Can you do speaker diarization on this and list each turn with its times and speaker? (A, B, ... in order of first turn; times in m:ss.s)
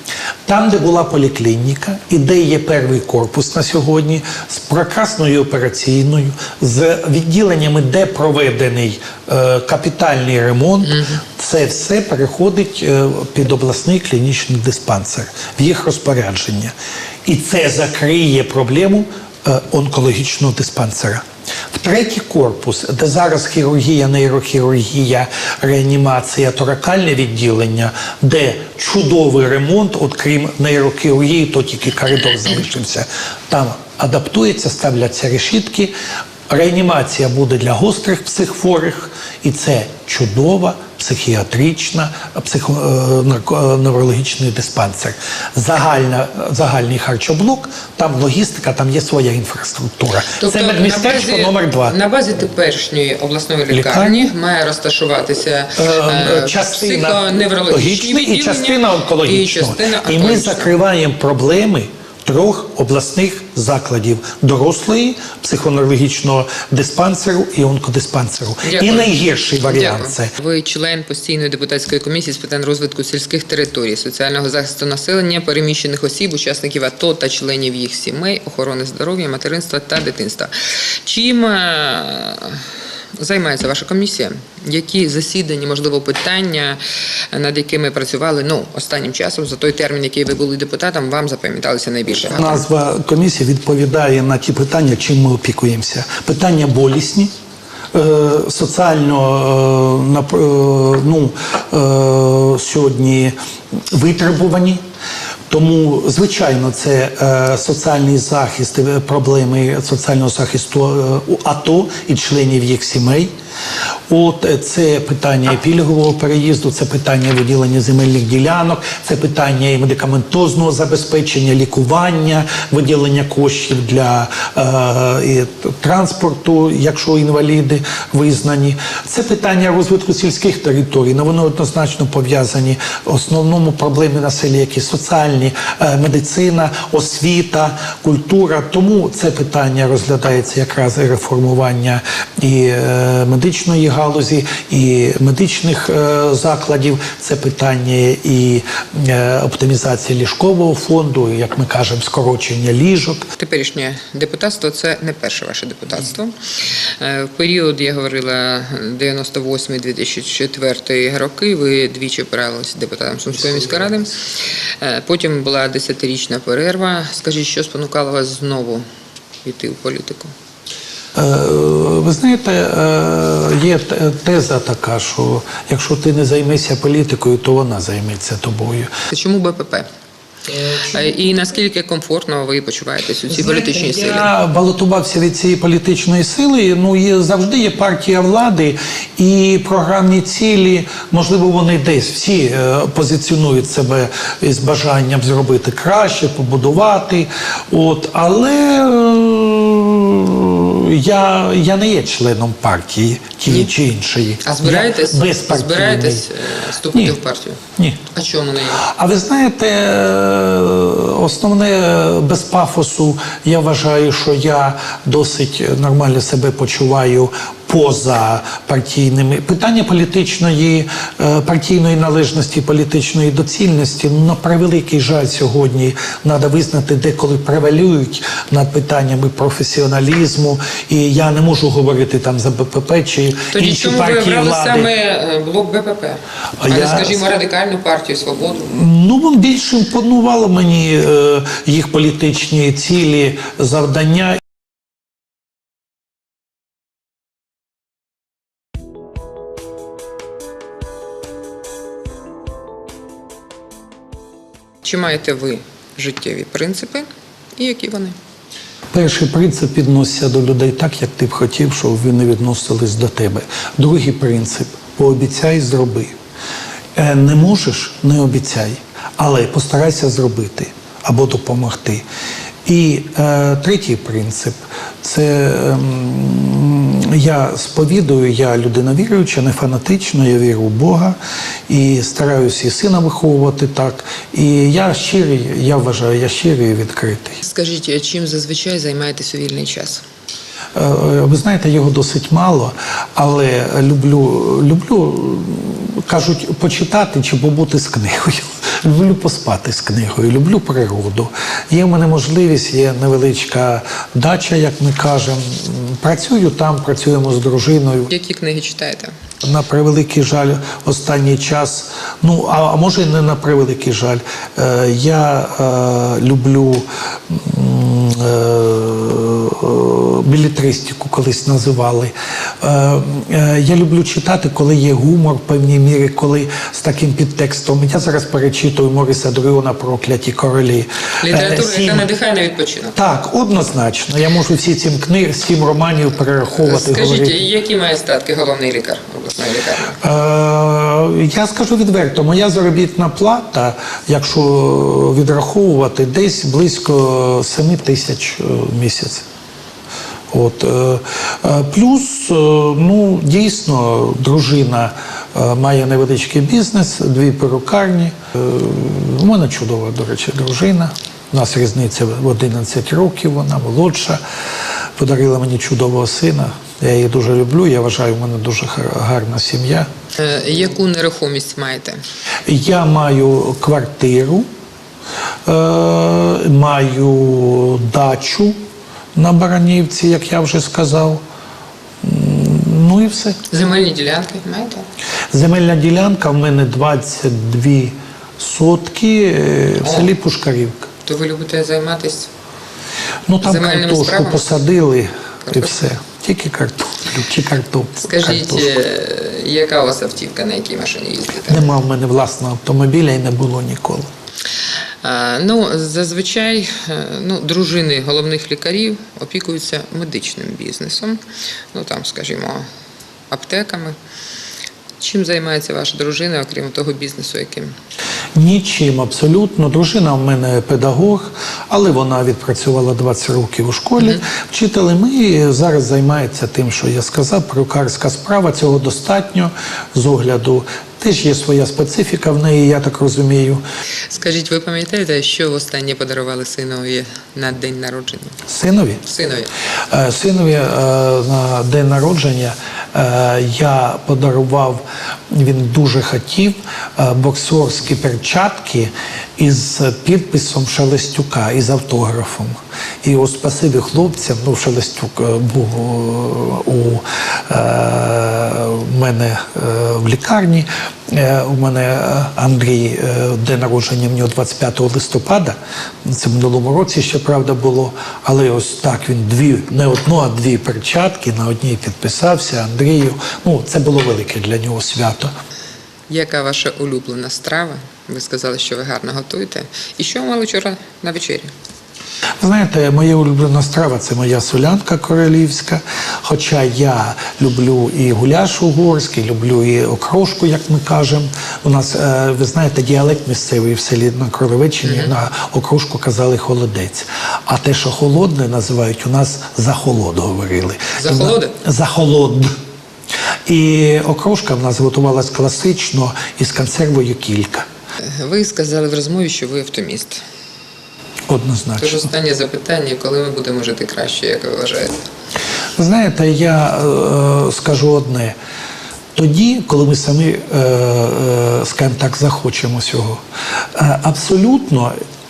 0:00.5-0:35.9 A
0:10.9-0:11.2 B
0:36.5-0:52.0 A
0:50.4-1:00.7 B
0:53.7-0:54.3 A
0:55.8-1:10.3 A
1:08.6-1:09.1 B
1:09.7-1:22.6 B
1:23.2-1:26.8 B
1:27.3-1:32.6 B
1:32.3-1:37.3 A
1:37.9-1:44.8 A
1:45.5-1:53.3 A
1:54.1-2:33.3 A
2:33.4-2:36.4 B
2:37.0-2:44.2 B
2:44.8-2:48.8 B
2:49.4-2:50.3 B
2:51.2-2:58.9 A
2:59.1-2:59.9 B
3:00.6-3:04.3 B
3:03.3-3:26.3 A
3:24.4-3:27.6 B
3:28.1-3:28.9 B
3:28.8-3:54.9 A
3:53.5-3:58.7 B
3:56.6-3:57.2 A
3:58.7-4:04.4 A
4:14.8-4:18.2 B
4:18.9-4:26.2 A
4:27.0-4:32.0 A
4:32.6-4:41.2 A
4:41.7-4:47.4 A
4:47.4-4:50.0 B
4:50.8-5:08.1 A
5:08.1-5:09.1 B
5:09.4-5:32.1 A
5:31.2-5:33.0 B
5:33.0-5:37.4 A
5:36.5-5:40.0 B
5:40.0-5:49.2 A
5:50.3-6:04.2 A
6:05.0-6:09.9 A
6:10.2-6:12.0 B
6:12.5-6:14.5 A
6:15.5-6:18.6 A
6:19.2-6:21.2 A
6:22.0-6:23.4 A
6:23.5-6:24.8 B
6:25.3-6:30.9 A
6:29.8-6:30.1 B
6:31.0-6:32.3 B
6:33.3-6:38.7 A
6:33.4-6:34.6 B
6:35.5-6:35.7 B
6:38.0-6:41.7 B
6:41.5-6:44.1 A
6:45.0-6:51.2 B
6:51.7-6:52.7 B
6:53.3-6:54.0 B
6:55.0-6:57.7 B
6:58.4-7:13.6 A
7:14.1-7:18.4 B
7:18.5-7:19.0 A
7:19.0-7:19.5 B
7:19.9-7:55.3 A
7:56.1-8:01.5 B
8:02.4-8:22.5 A
8:14.8-8:15.1 B
8:21.0-8:21.6 B
8:23.5-8:27.7 A
8:28.0-8:30.2 B
8:31.3-8:32.1 A
8:31.8-8:35.0 B
8:35.8-8:38.4 A
8:39.2-8:45.0 A